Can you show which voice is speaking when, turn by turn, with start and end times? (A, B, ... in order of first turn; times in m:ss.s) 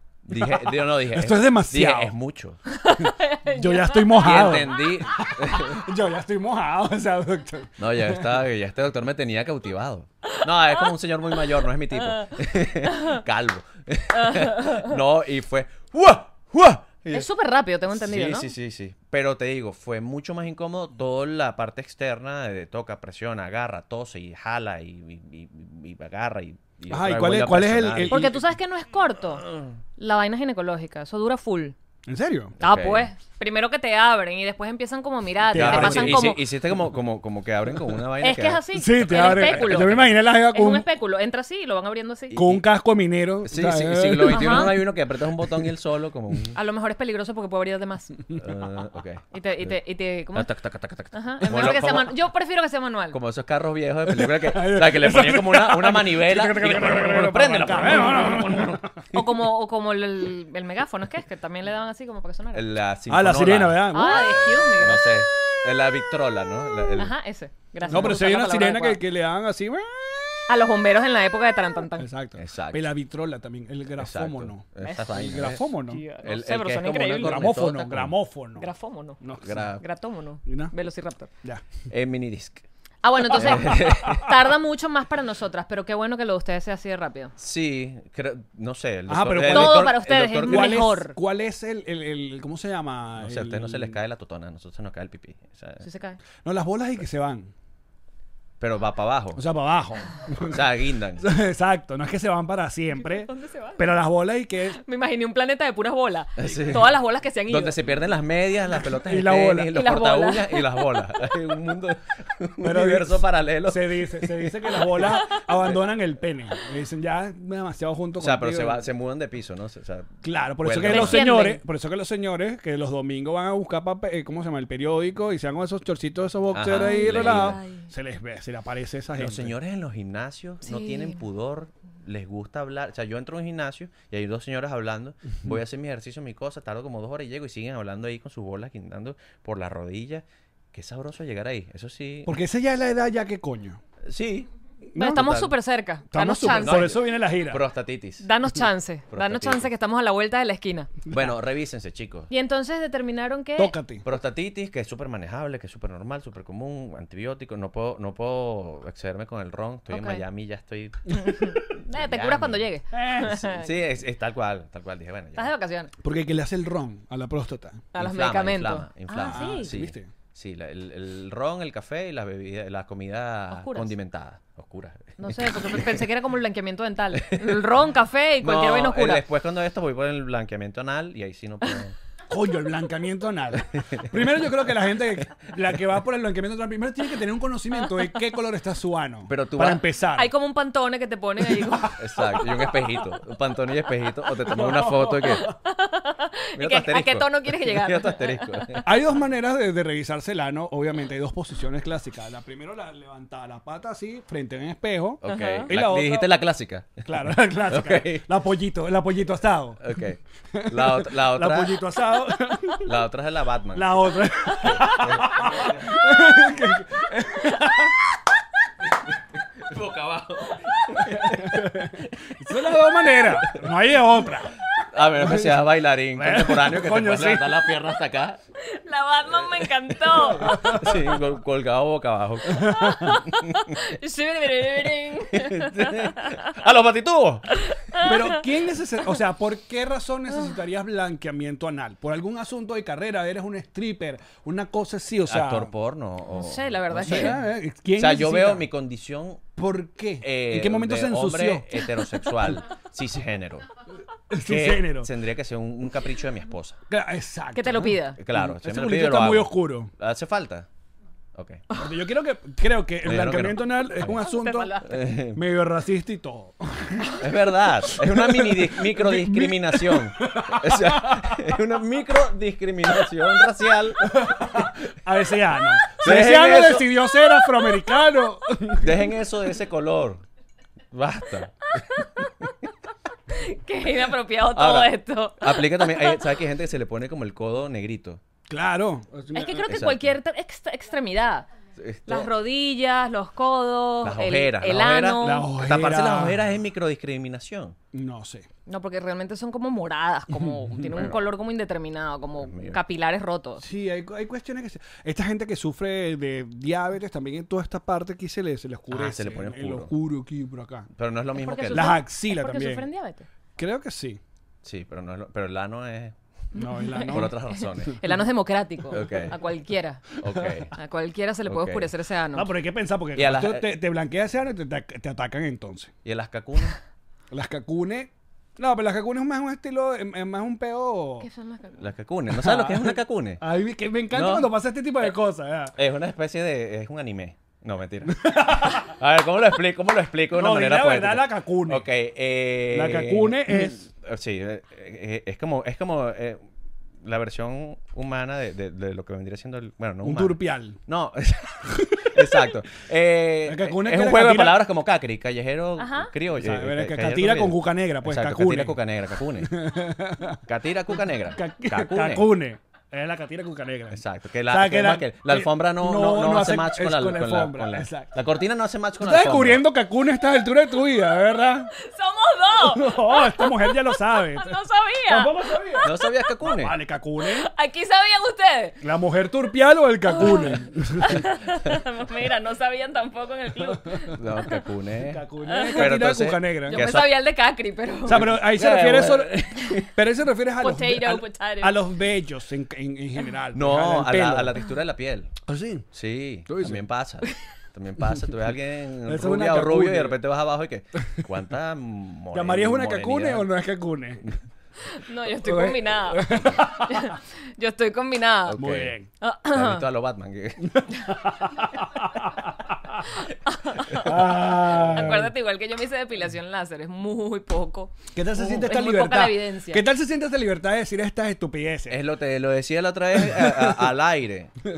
0:00.2-0:02.6 A
0:01.1-0:02.2 B
0:02.7-0:04.6 C
0:03.6-0:08.2 B
0:04.2-0:05.8 A
0:07.8-0:17.3 A
0:10.4-0:10.8 C
0:12.0-0:12.3 C
0:12.9-0:13.2 C
0:14.1-0:14.9 C
0:17.1-0:18.5 C
0:17.9-0:28.3 A
0:26.9-0:28.4 B
0:28.1-0:29.4 C
0:29.4-0:29.7 A
0:30.0-0:31.8 C
0:32.1-0:32.5 B
0:32.6-0:33.1 A
0:32.6-0:36.4 C
0:35.5-0:36.4 B
0:35.5-0:40.3 A
0:38.2-0:42.4 C
0:38.7-0:40.8 B
0:42.3-0:42.7 A
0:42.3-0:44.8 B
0:43.4-0:46.6 A
0:44.2-0:44.8 C
0:46.5-0:48.1 C
0:48.4-0:49.8 A
0:49.3-0:50.5 C
0:50.3-0:52.1 A
0:51.1-0:53.2 C
0:53.1-0:58.8 A
0:54.1-0:59.0 B
0:59.1-1:02.7 C
1:02.5-1:07.1 A
1:03.1-1:04.4 B
1:03.9-1:05.1 C
1:07.0-1:09.0 C
1:07.9-1:10.3 B
1:10.5-1:12.1 C
1:12.0-1:16.1 B
1:12.4-1:12.9 A
1:14.0-1:18.2 A
1:14.8-1:15.2 C
1:15.9-1:17.5 C
1:17.2-1:18.7 B
1:18.6-1:19.2 C
1:19.2-1:19.7 B
1:19.4-1:19.8 A
1:19.8-1:21.3 C
1:20.5-1:20.7 B
1:21.9-1:22.6 A
1:23.0-1:27.3 C
1:23.3-1:24.3 A
1:23.5-1:23.8 B
1:27.4-1:30.9 A
1:29.1-1:34.0 B
1:29.5-1:31.2 C
1:33.2-1:35.9 A
1:35.8-1:36.2 C
1:36.4-1:37.5 B
1:38.6-1:39.4 A
1:39.4-1:40.6 B
1:40.4-1:41.2 A
1:41.2-1:44.8 B
1:43.1-1:43.9 C
1:44.8-1:47.8 C
1:46.4-1:46.9 A
1:47.5-1:55.4 A
1:49.0-1:49.7 B
1:49.7-1:50.8 C
1:52.6-1:58.8 B
1:58.2-2:01.4 A
2:00.2-2:09.6 B
2:00.8-2:01.6 C
2:06.5-2:07.6 A
2:06.7-2:07.9 C
2:09.2-2:22.4 A
2:10.6-2:11.2 C
2:22.3-2:23.8 B
2:24.0-2:25.5 A
2:24.9-2:25.3 B
2:25.0-2:26.9 C
2:26.1-2:27.6 B
2:26.5-2:28.3 A
2:28.2-2:30.9 C
2:29.1-2:29.7 A
2:31.1-2:31.4 B
2:31.1-2:32.3 A
2:32.3-2:33.8 C
2:33.6-2:34.0 B
2:34.0-2:45.5 A
2:39.9-2:40.2 C
2:41.2-2:43.7 C
2:42.9-2:43.3 B
2:45.4-2:45.9 C
2:46.0-2:47.9 B
2:47.9-2:49.7 C
2:48.0-2:56.1 A
2:49.2-2:50.1 B
2:53.5-2:54.0 C
2:55.2-2:59.2 C
2:57.2-2:57.7 A
2:58.4-3:02.0 A
3:02.3-3:10.3 B
3:04.0-3:04.5 A
3:09.3-3:09.9 A
3:10.2-3:12.0 C
3:12.0-3:15.5 A
3:14.5-3:15.5 B
3:15.5-3:18.4 C
3:16.6-3:18.9 A
3:18.8-3:26.3 B
3:25.2-3:28.3 A
3:25.3-3:25.7 C
3:27.0-3:29.8 B
3:29.8-3:31.8 A
3:30.5-3:32.9 B
3:32.8-3:36.0 A
3:33.7-3:38.0 B
3:39.0-3:43.7 A
3:41.1-3:41.9 B
3:42.4-3:44.5 B
3:44.9-3:48.4 A
3:45.2-3:47.6 B
3:48.6-3:50.7 C
3:49.4-3:53.7 A
3:50.5-3:51.0 B
3:52.6-3:53.0 B
3:52.7-3:56.4 C
3:55.3-3:57.7 A
3:57.7-3:58.4 C
3:58.0-4:05.7 B
4:05.3-4:07.4 A
4:06.3-4:07.4 C
4:07.0-4:08.7 B
4:08.0-4:09.5 A
4:09.6-4:11.7 B
4:10.2-4:13.7 A
4:14.3-4:15.1 B
4:14.4-4:16.8 A
4:16.9-4:19.9 B
4:17.6-4:18.2 C
4:18.2-4:20.7 A
4:21.3-4:21.7 A
4:21.8-4:24.8 B
4:23.0-4:24.2 A
4:24.2-4:24.9 C
4:24.8-4:25.4 A
4:25.4-4:27.2 B
4:27.2-4:34.7 A
4:27.9-4:31.4 B
4:34.0-4:39.1 B
4:36.0-4:37.1 A
4:38.8-4:40.2 A
4:40.9-4:42.5 A
4:43.3-4:46.2 C
4:44.5-4:48.2 A
4:48.5-4:49.7 B
4:49.3-4:51.5 C
4:49.6-4:50.2 A
4:51.8-4:52.3 A
4:52.1-4:55.5 C
4:54.0-4:57.8 A
4:55.2-4:56.4 B
4:57.9-4:58.5 B
4:58.7-5:03.6 C
5:00.9-5:01.2 A
5:02.4-5:02.8 A
5:03.6-5:10.9 B
5:08.9-5:09.9 A
5:10.9-5:12.0 A
5:11.4-5:13.3 C
5:11.7-5:12.8 B
5:13.6-5:14.2 B
5:14.6-5:16.2 A
5:16.6-5:17.4 B
5:16.6-5:20.0 C
5:17.0-5:18.0 A
5:18.9-5:19.4 A
5:20.2-5:20.7 A
5:20.8-5:22.5 C
5:21.5-5:21.9 A
5:22.3-5:25.9 B
5:23.2-5:23.7 A
5:26.0-5:26.8 A
5:27.3-5:31.3 B
5:31.2-5:31.8 C
5:31.8-5:33.4 A
5:32.3-5:35.7 B
5:34.1-5:35.1 A
5:35.7-5:46.5 A
5:38.2-5:38.9 B
5:40.3-5:41.9 B
5:42.7-5:43.8 B
5:47.0-5:59.5 A
5:50.0-5:50.8 B
5:51.7-5:52.4 B
5:53.5-5:54.6 B
5:55.8-5:56.1 C
5:56.4-5:58.8 B
5:59.4-6:00.4 B
6:00.5-6:02.3 A
6:01.3-6:08.1 B
6:03.9-6:09.6 A
6:09.0-6:11.7 B
6:11.8-6:16.0 C
6:12.7-6:14.6 B
6:15.1-6:15.9 B
6:15.8-6:16.8 A
6:16.4-6:17.5 B
6:17.2-6:18.8 C
6:18.8-6:21.3 B
6:20.1-6:24.2 C
6:24.2-6:27.2 A
6:25.1-6:26.9 B
6:25.5-6:25.9 C
6:26.7-6:28.4 C
6:28.1-6:29.9 A
6:28.1-6:34.6 B
6:30.6-6:31.8 C
6:33.5-6:35.4 A
6:35.4-6:35.9 B
6:35.9-6:43.5 A
6:36.5-6:36.8 B
6:39.1-6:40.2 B
6:42.3-6:44.2 B
6:45.0-6:48.6 C
6:45.4-6:47.2 B
6:48.5-6:48.9 A
6:48.6-6:49.1 B
6:49.2-6:49.9 C
6:49.5-6:50.8 A
6:50.7-6:53.0 B
6:53.5-6:59.8 C
6:54.0-6:55.3 B
6:54.9-6:55.2 A
6:58.1-7:02.0 B
7:01.9-7:04.5 A
7:03.2-7:03.8 B